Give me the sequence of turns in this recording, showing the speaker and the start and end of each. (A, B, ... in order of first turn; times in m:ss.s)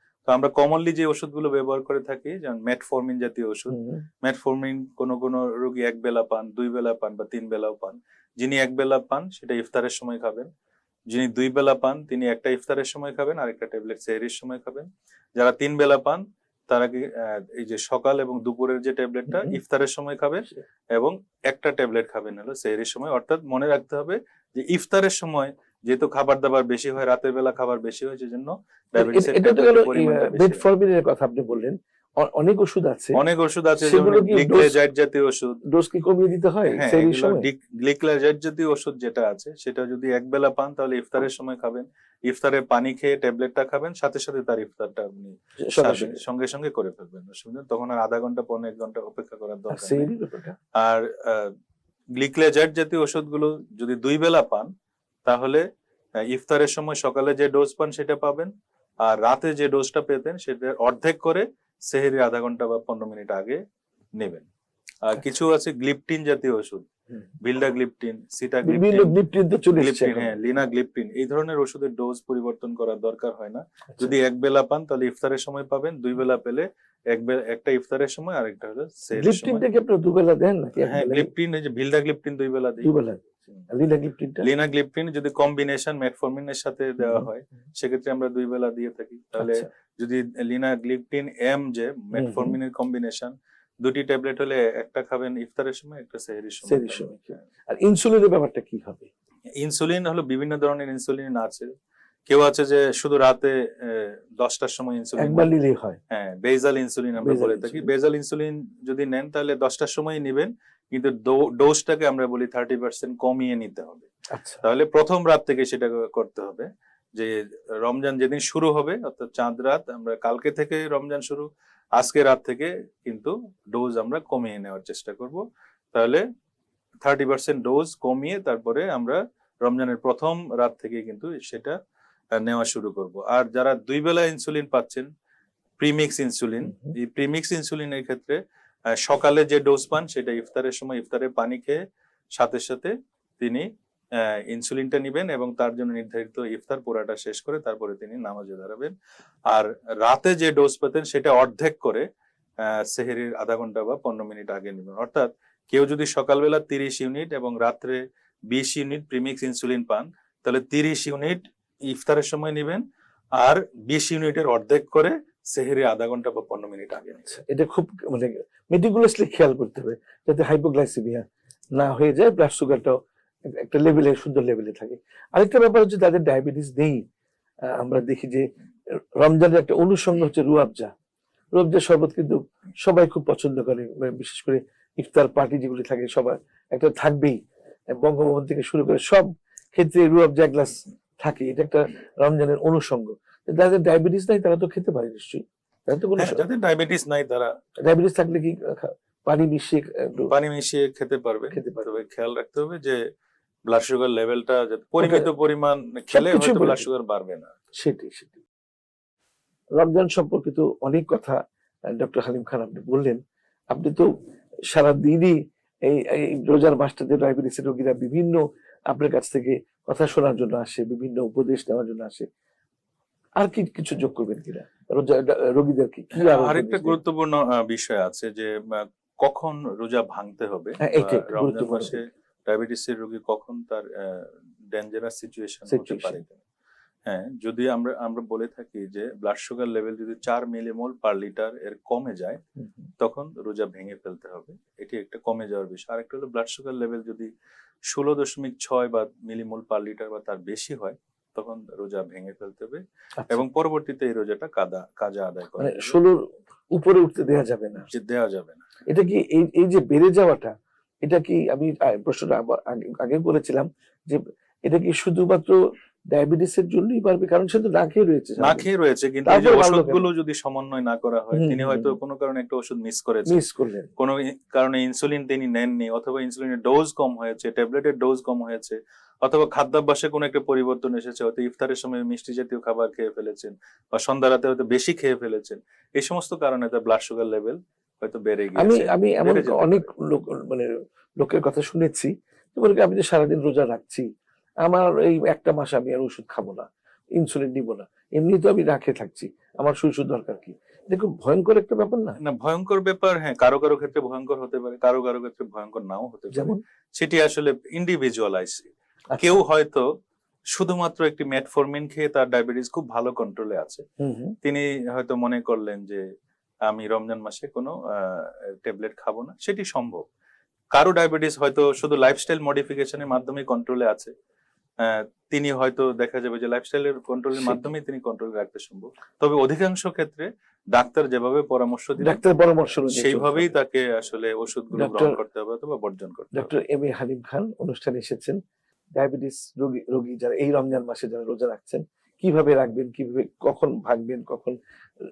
0:00.3-0:10.5 A
0:03.7-0:04.0 B
0:11.1-0:30.7 A
0:19.3-0:19.6 B
0:29.0-0:33.2 B
0:33.1-0:35.6 A
0:33.8-0:34.8 B
0:35.7-0:37.5 B
0:36.7-0:50.1 A
0:45.6-0:46.2 B
0:49.7-0:50.6 B
0:50.8-0:51.5 A
0:52.2-0:54.7 A
0:55.3-0:55.6 A
0:56.3-0:58.5 A
0:59.0-1:03.6 A
1:04.2-1:04.5 A
1:05.0-1:06.9 A
1:07.4-1:09.2 A
1:08.6-1:10.4 B
1:09.8-1:19.7 A
1:19.1-1:21.3 B
1:20.8-1:22.9 A
1:22.8-1:24.5 B
1:24.4-1:37.4 A
1:27.0-1:27.3 B
1:29.4-1:29.7 B
1:32.1-1:32.6 B
1:36.7-1:39.1 B
1:39.6-1:41.7 A
1:42.3-1:45.5 A
1:45.2-1:46.0 B
1:46.1-1:54.1 A
1:47.2-1:47.9 B
1:54.3-1:54.6 B
1:54.6-2:06.2 A
2:07.0-2:11.8 A
2:12.4-2:15.1 A
2:15.8-2:18.4 A
2:19.0-2:21.8 A
2:22.4-2:28.9 A
2:29.5-2:32.1 A
2:32.6-2:42.8 A
2:43.4-2:47.3 A
2:47.3-2:51.2 B
2:51.8-2:52.9 B
2:53.5-2:57.0 B
2:57.7-2:58.5 B
2:59.2-3:00.9 B
3:01.6-3:07.4 B
3:07.9-3:16.4 B
3:16.2-3:17.5 A
3:17.9-3:20.3 B
3:20.2-3:23.0 A
3:21.5-3:22.0 B
3:23.7-3:27.6 A
3:25.0-3:25.3 B
3:26.1-3:26.9 B
3:27.8-3:28.4 B
3:29.8-3:31.4 B
3:31.9-3:33.2 B
3:33.7-3:34.1 B
3:34.7-3:42.3 B
3:43.4-3:47.0 B
3:46.2-3:56.4 A
3:50.8-3:52.0 B
3:55.7-3:56.2 B
3:57.1-4:02.4 A
4:03.0-4:07.3 A
4:07.9-4:16.0 A
4:15.6-4:16.2 B
4:16.7-4:17.9 B
4:17.9-4:18.6 A
4:18.9-4:20.5 B
4:21.0-4:25.6 B
4:26.1-4:28.7 B
4:28.4-4:33.4 A
4:29.2-4:30.1 B
4:31.3-4:32.0 B
4:33.3-4:33.9 B
4:34.0-4:49.9 A
4:48.6-4:54.1 B
4:54.6-5:02.2 B
5:02.2-5:08.7 A
5:06.3-5:06.6 B
5:09.1-5:09.4 B
5:09.2-5:09.9 A
5:10.6-5:13.8 A
5:14.0-5:14.4 B
5:14.4-5:16.0 A
5:16.7-5:20.0 A
5:20.7-5:24.1 A
5:24.8-5:32.2 A
5:27.4-5:27.7 B
5:32.0-5:33.5 B
5:32.9-5:36.5 A
5:34.7-5:35.2 B
5:36.3-5:38.4 B
5:39.0-5:44.6 B